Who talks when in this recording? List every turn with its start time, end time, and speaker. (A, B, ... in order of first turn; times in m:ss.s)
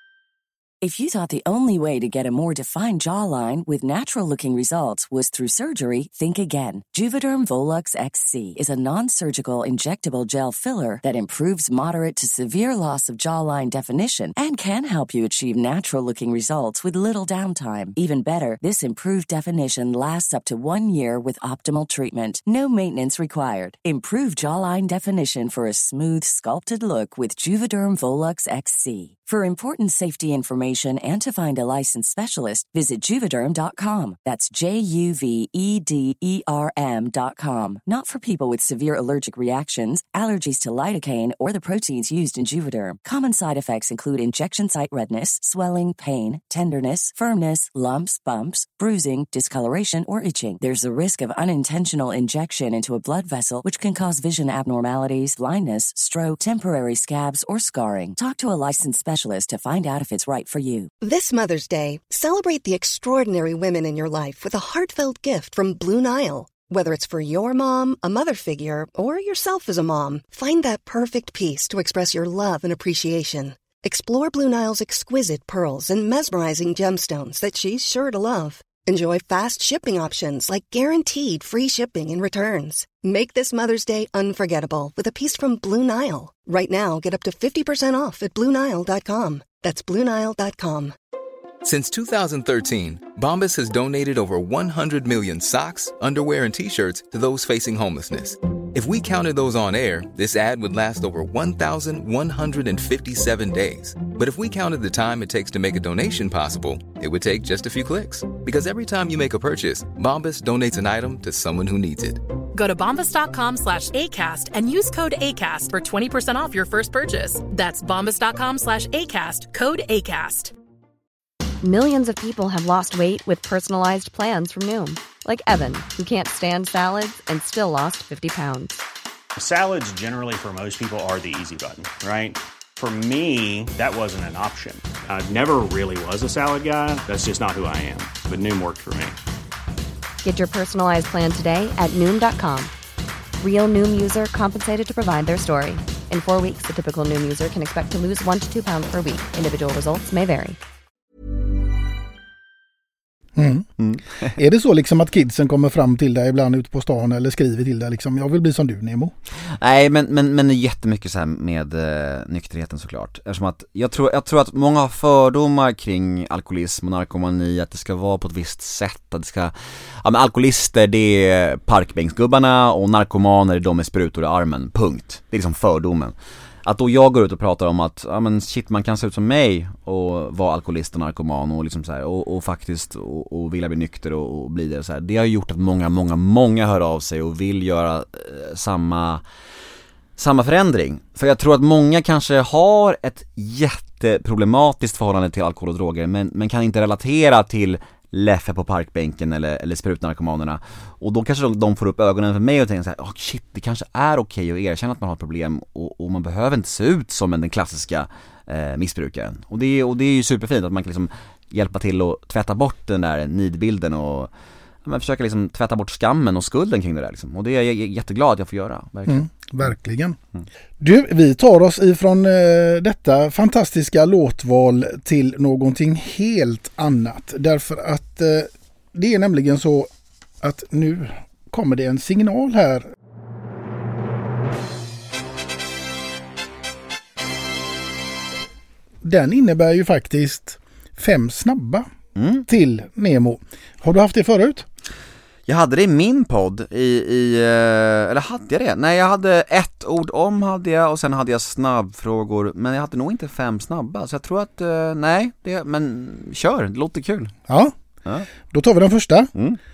0:00.8-1:00.9 A
1:01.0-1:30.9 B
1:31.6-1:52.2 C
1:52.6-2:00.5 D
2:01.6-2:08.8 E
2:09.4-2:19.2 F
2:20.2-2:22.7 E
2:23.4-2:30.6 E
2:33.4-2:33.7 G
2:33.8-2:34.4 H
2:34.4-2:39.1 G
2:39.6-3:09.2 H
3:10.2-3:34.3 H
3:34.8-3:39.7 H
3:39.1-3:40.2 G
3:40.8-3:49.9 G
3:50.4-3:52.9 G
3:59.0-4:01.9 G
4:02.2-4:02.4 H
4:02.5-4:04.7 G
4:05.5-4:17.3 H
4:17.5-4:17.7 G
4:18.5-4:19.3 G